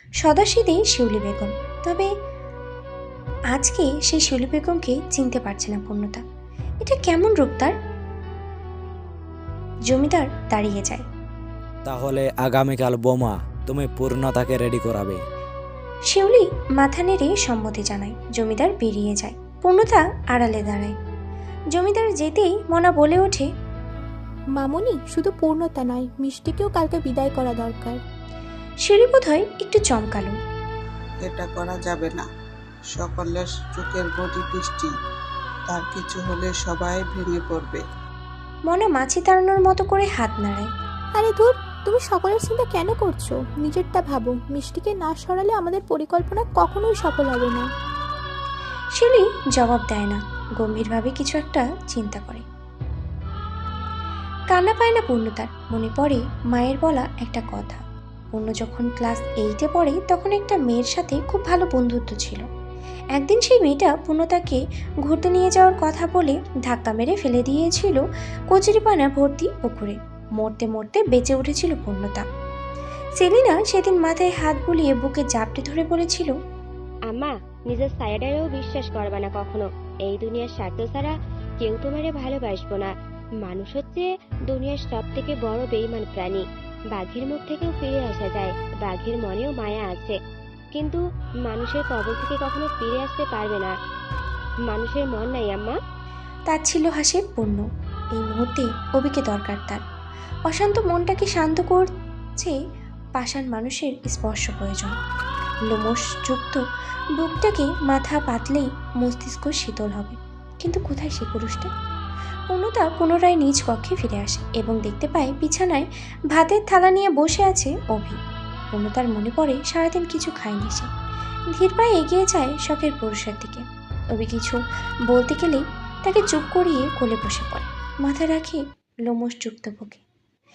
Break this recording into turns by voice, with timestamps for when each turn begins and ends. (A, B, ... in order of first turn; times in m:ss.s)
0:00.2-0:02.1 A
0:03.5-0:06.2 A
0:06.8-0:07.7 A
0:09.9-0:11.0 A
0:11.9-0:15.2 B
0:16.1-0:20.9 A
0:21.7-0:23.5 A
0:24.5-0:28.0 C
0:28.8-0:30.4 A
0:31.2-0:32.3 D
0:32.9-0:34.9 D
0:35.7-0:37.8 D
0:38.7-0:40.7 A
0:41.2-0:47.6 C
0:49.0-0:52.4 A
0:54.5-0:57.8 A
0:58.3-1:02.4 A
1:03.1-1:12.2 A
1:13.2-1:16.3 A
1:17.1-1:30.2 E
1:30.7-1:33.7 E
1:34.6-1:35.8 E
1:36.5-1:37.6 A
1:38.2-1:39.8 A
1:40.5-1:42.5 A
1:43.2-1:44.9 A
1:45.7-1:46.6 A
1:47.2-1:51.7 A
1:52.5-1:58.2 A
1:58.7-2:00.9 A
2:01.5-2:03.6 A
2:04.1-2:10.0 A